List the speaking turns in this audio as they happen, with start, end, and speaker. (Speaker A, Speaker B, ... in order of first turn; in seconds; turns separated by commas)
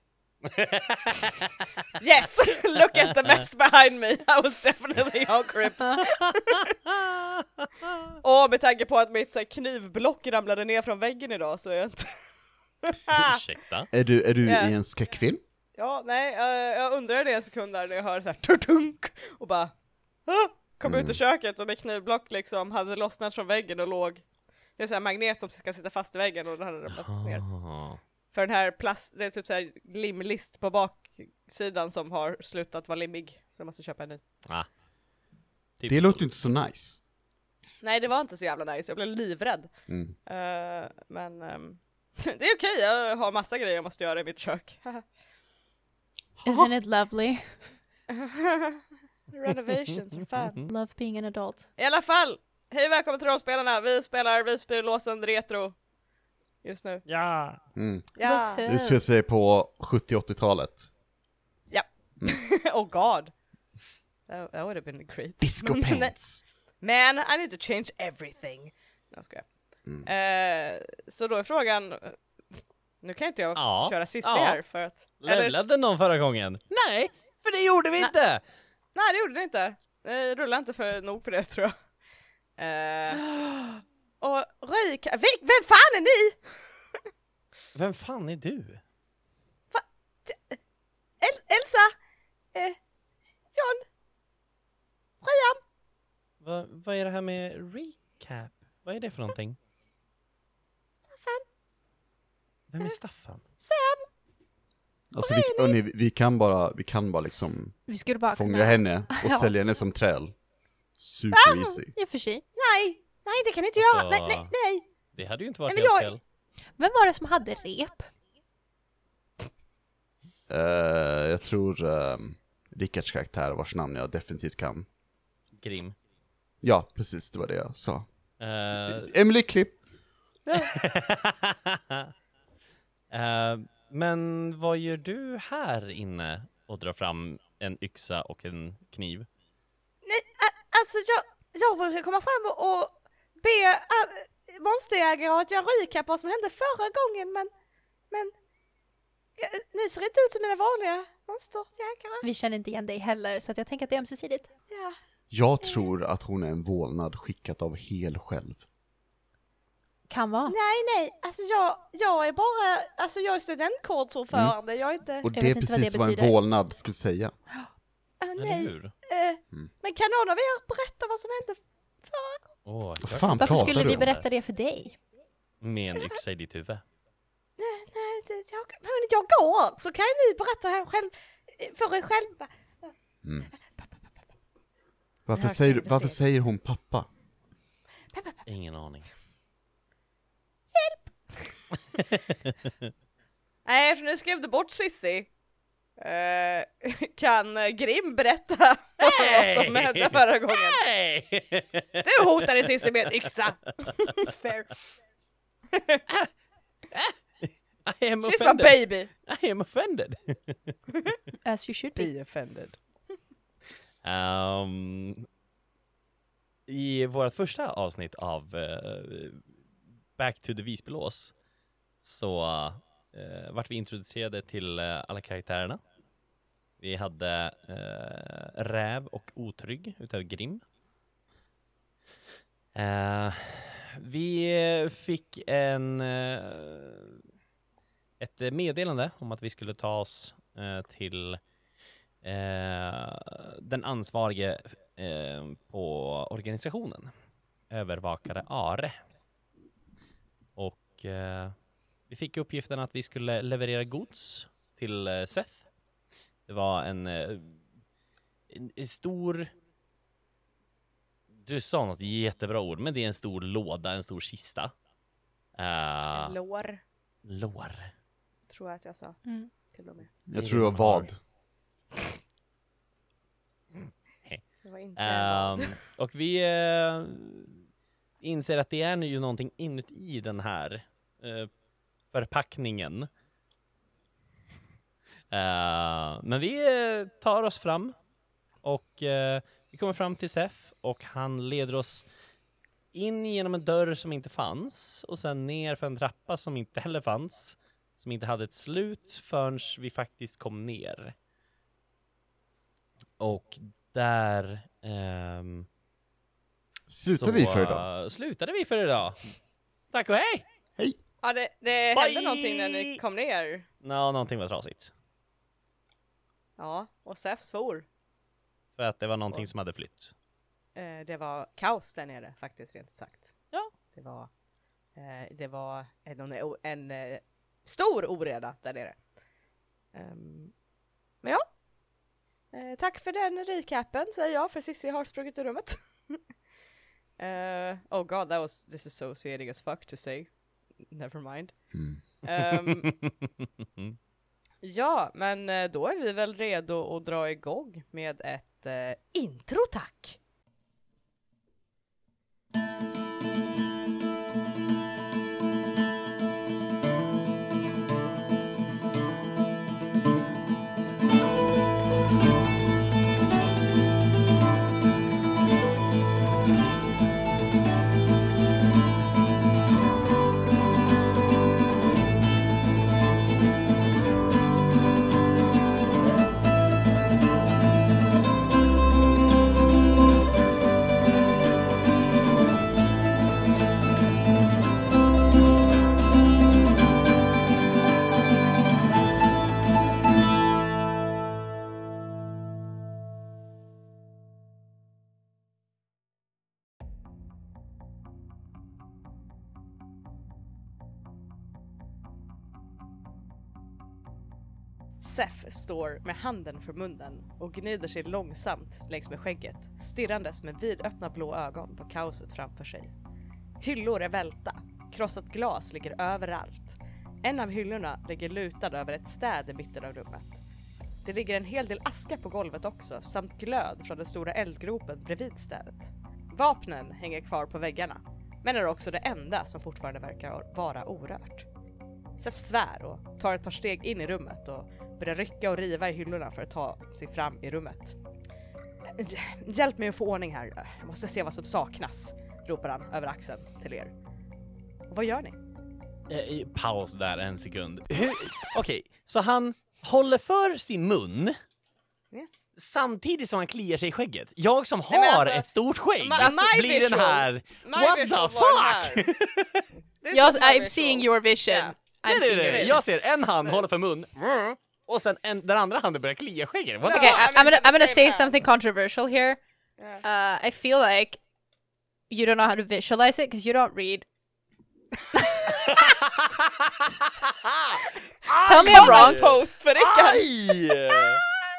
Speaker A: 0.5-1.4, Speaker B: 2.0-6.7, Speaker B: 8.2-12.2, Speaker B: 12.8-13.4, Speaker A: 13.1-13.9, Speaker C: 13.9-15.4, Speaker B: 14.4-14.7, Speaker B: 15.7-27.6, Speaker C: 20.8-21.2, Speaker A: 26.9-28.0, Speaker B: 28.3-34.2, Speaker A: 35.8-36.2, Speaker C: 35.9-37.0, Speaker B: 37.8-45.0, Speaker C: 39.9-40.1, Speaker B: 46.4-46.7, Speaker D: 46.4-47.7, Speaker B: 48.1-50.6, Speaker D: 50.7-51.7, Speaker B: 51.8-55.8, Speaker B: 56.6-57.0, Speaker A: 57.1-57.6, Speaker C: 57.7-60.9, Speaker B: 58.1-58.6, Speaker D: 58.2-59.0, Speaker B: 61.7-63.3, Speaker B: 64.3-66.2, Speaker C: 65.4-66.4, Speaker B: 66.7-69.5, Speaker C: 69.8-70.1, Speaker B: 70.0-72.2, Speaker B: 73.0-75.5, Speaker A: 73.5-74.6, Speaker A: 75.2-78.4, Speaker B: 78.9-81.7, Speaker B: 82.6-83.3, Speaker B: 84.2-86.7, Speaker A: 87.7-88.8, Speaker B: 89.7-90.6, Speaker B: 91.2-91.9, Speaker B: 92.5-92.8, Speaker B: 93.5-93.8, Speaker B: 95.2-95.6, Speaker A: 96.4-99.6, Speaker B: 101.1-101.4, Speaker A: 102.7-103.4, Speaker B: 103.6-104.0, Speaker C: 105.1-110.4, Speaker B: 105.2-105.8, Speaker D: 107.9-109.5, Speaker C: 110.9-111.9, Speaker B: 111.3-111.8, Speaker D: 111.9-112.4, Speaker B: 112.5-114.8, Speaker A: 113.8-114.5, Speaker A: 115.1-116.2, Speaker B: 115.7-116.1, Speaker D: 116.8-118.1, Speaker C: 120.5-124.9, Speaker A: 125.6-125.9, Speaker C: 126.6-128.3, Speaker A: 128.4-129.1, Speaker C: 128.9-129.8, Speaker B: 130.4-130.7, Speaker A: 130.7-132.1, Speaker A: 133.1-139.3, Speaker B: 140.0-147.5, Speaker B: 149.4-152.2, Speaker D: 152.2-154.5, Speaker B: 154.7-154.9, Speaker C: 155.3-158.6, Speaker D: 160.1-160.5, Speaker B: 160.5-165.3, Speaker C: 165.2-167.3, Speaker D: 165.3-166.4, Speaker B: 168.2-172.5, Speaker A: 168.4-168.9, Speaker A: 172.6-174.2, Speaker C: 173.0-174.1, Speaker D: 173.3-175.0, Speaker A: 175.6-176.8, Speaker B: 177.6-182.9, Speaker C: 183.2-183.5, Speaker B: 183.8-184.0, Speaker C: 185.2-187.1, Speaker B: 185.3-186.2, Speaker B: 188.1-188.4, Speaker A: 188.4-189.1, Speaker B: 190.7-191.6, Speaker B: 193.6-195.3, Speaker B: 196.0-200.8, Speaker A: 199.0-202.2, Speaker B: 202.0-204.3, Speaker B: 205.7-206.0, Speaker A: 206.9-210.7, Speaker B: 208.2-209.1, Speaker D: 211.4-212.1, Speaker B: 211.9-212.8, Speaker A: 214.0-215.2, Speaker A: 216.7-219.4, Speaker A: 220.2-221.3, Speaker A: 222.0-225.8, Speaker A: 226.8-230.6, Speaker A: 232.7-237.2, Speaker A: 238.2-241.4, Speaker A: 242.2-247.1, Speaker A: 247.7-249.0, Speaker A: 250.6-255.7, Speaker A: 256.5-257.6, Speaker A: 258.5-259.5, Speaker A: 261.4-264.8, Speaker A: 265.5-266.4, Speaker B: 266.1-266.8, Speaker A: 267.2-267.9, Speaker B: 268.5-270.1, Speaker D: 269.2-269.5, Speaker C: 270.3-271.2, Speaker A: 270.4-271.1, Speaker A: 274.2-277.6, Speaker B: 274.6-275.8, Speaker A: 278.2-281.5, Speaker A: 282.1-283.1, Speaker A: 285.3-288.0, Speaker A: 288.6-292.1, Speaker A: 292.9-301.1, Speaker A: 303.2-305.7, Speaker C: 306.9-307.9, Speaker A: 307.1-310.4, Speaker B: 311.2-313.6, Speaker A: 311.9-313.0, Speaker A: 313.8-314.9, Speaker B: 316.6-317.9, Speaker A: 318.8-320.1, Speaker B: 320.7-324.3, Speaker B: 324.9-329.0, Speaker B: 329.9-330.5, Speaker B: 332.5-336.2, Speaker B: 337.2-340.3, Speaker B: 340.9-342.9, Speaker C: 341.7-342.0, Speaker A: 342.4-343.1, Speaker B: 344.6-350.2, Speaker B: 405.0-412.9, Speaker B: 413.6-420.4, Speaker B: 421.0-431.5, Speaker B: 432.2-438.0, Speaker B: 438.9-443.9, Speaker B: 444.9-445.4, Speaker A: 446.1-451.4, Speaker A: 452.6-459.7, Speaker B: 454.9-459.1, Speaker B: 460.0-462.8, Speaker D: 460.1-462.8, Speaker A: 462.0-467.3, Speaker B: 466.8-468.3, Speaker D: 466.9-469.4, Speaker D: 470.0-471.2, Speaker D: 472.1-474.1, Speaker A: 475.7-481.2, Speaker B: 477.8-480.3, Speaker D: 478.4-479.4